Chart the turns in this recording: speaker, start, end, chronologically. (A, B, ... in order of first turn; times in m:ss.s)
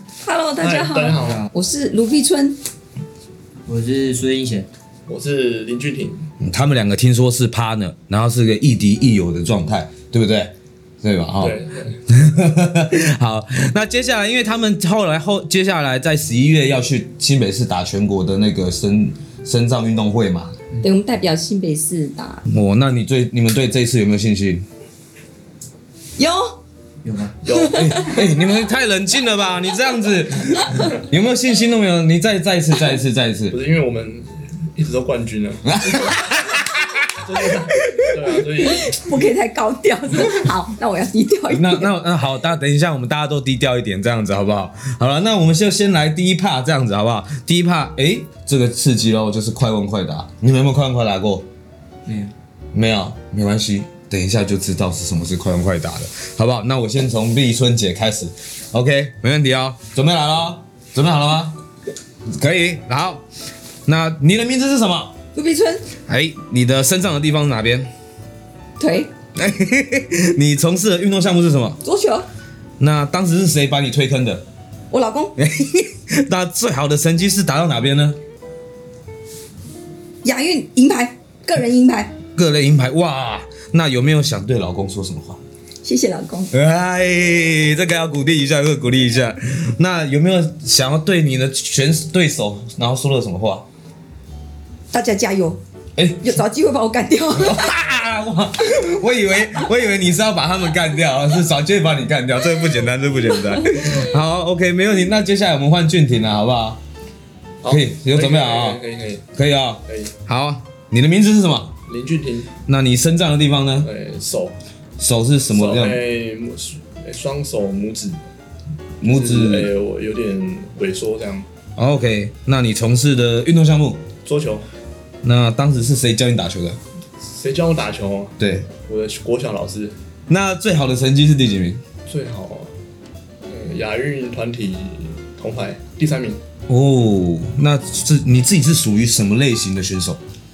0:00.2-0:02.6 A
0:00.6-0:01.5 B
0:01.1-0:01.5 C
0:03.7-0:04.7 C
0:05.1-0:06.3 B
0:06.4-0:20.6 D
0:11.4-0:12.0 B
0:20.8-0:22.4 A
0:22.5-0:24.7 D
0:26.2-0:26.6 A
0:27.0-0:27.4 C
0:27.4-0:28.1 B
0:27.6-0:33.6 D
0:27.8-0:28.2 A
0:33.5-0:35.7 B
0:35.6-0:38.0 D
0:37.2-0:39.2 B
0:38.6-0:41.9 A
0:41.5-0:51.5 D
0:52.1-0:52.3 C
0:52.7-1:01.6 D
1:02.2-1:03.2 D
1:03.9-1:05.2 D
1:05.3-1:05.9 A
1:06.1-1:07.9 D
1:08.8-1:09.1 A
1:09.4-1:11.8 D
1:11.8-1:12.3 A
1:12.8-1:14.5 D
1:14.9-1:15.4 A
1:15.4-1:18.2 D
1:20.2-1:22.2 A
1:22.4-1:25.4 D
1:25.8-1:26.5 A
1:26.5-1:33.7 D
1:34.9-1:35.6 A
1:36.0-1:36.4 D
1:36.2-1:37.7 A
1:37.4-1:46.8 D
1:43.5-1:43.9 A
1:47.6-1:49.3 B
1:47.7-1:48.8 D
1:49.3-1:51.7 D
1:49.9-1:50.1 B
1:51.9-1:52.5 B
1:52.7-1:53.9 D
1:53.8-1:54.6 B
1:55.0-1:56.0 D
1:55.5-1:58.3 B
1:59.0-1:59.7 D
1:59.0-2:01.5 B
2:01.8-2:04.0 D
2:04.2-2:04.7 B
2:05.2-2:06.8 D
2:07.2-2:10.0 B
2:08.4-2:08.7 D
2:10.3-2:11.8 D
2:12.1-2:12.7 B
2:13.4-2:16.4 B
2:16.7-2:20.2 D